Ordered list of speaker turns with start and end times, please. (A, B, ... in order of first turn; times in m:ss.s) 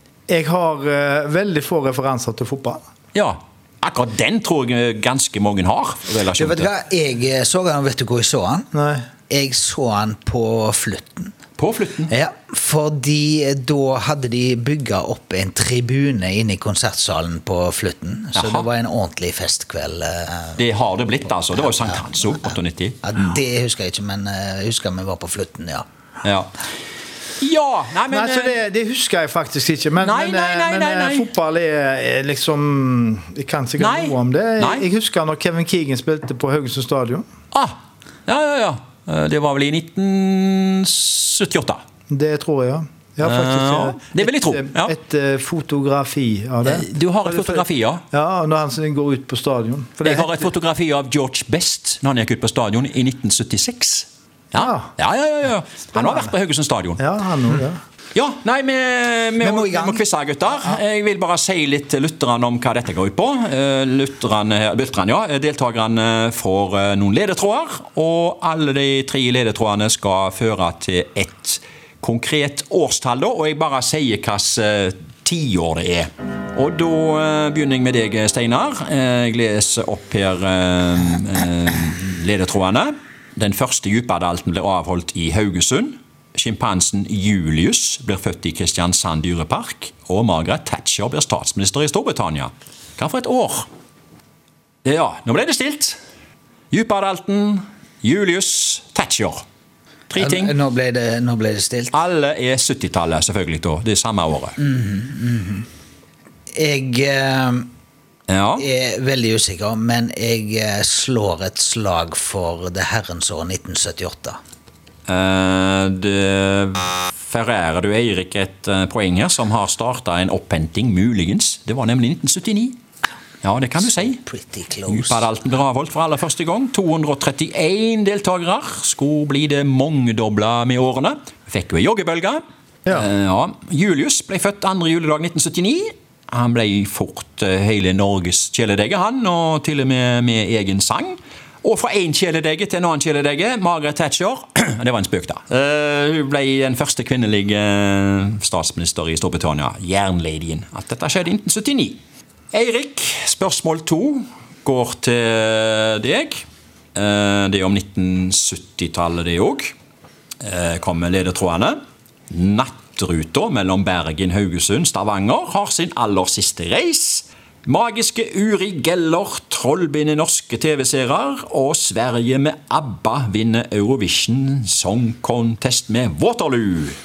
0:00.3-0:02.8 A
0:03.1-0:06.7 B
0:06.4-0:08.7 C
0:08.7-0:09.1 A
0:09.3-0:11.3 C
0:11.6-0:12.1 B
0:12.1-0:20.6 C
0:18.4-0:18.7 B
0:20.6-0:23.0 B
0:21.7-0:22.0 C
0:23.0-0:25.8 C
0:26.2-0:26.6 B
0:27.4-0:28.6 B
0:28.1-0:37.2 A
0:30.0-0:31.3 B
0:33.8-0:34.9 B
0:38.3-0:41.8 B
0:42.1-0:50.5 A
0:43.2-0:44.9 B
0:46.6-0:48.0 B
0:50.0-0:57.0 B
0:54.6-0:54.9 A
0:55.9-0:56.3 A
0:57.0-0:57.8 A
0:58.1-1:33.7 B
0:59.4-1:00.0 C
1:34.8-1:36.0 B
1:36.7-1:39.4 B
1:40.1-1:40.5 B
1:40.2-1:42.0 C
1:41.9-1:44.6 B
1:44.6-1:45.7 C
1:46.5-1:47.7 C
1:48.3-1:48.6 B
1:48.6-1:54.4 C
1:55.1-2:02.8 B
2:03.4-2:04.2 B
2:04.0-2:05.3 C
2:04.9-2:32.0 B
2:32.5-2:39.7 B
2:40.4-2:41.8 B
2:42.3-2:57.0 B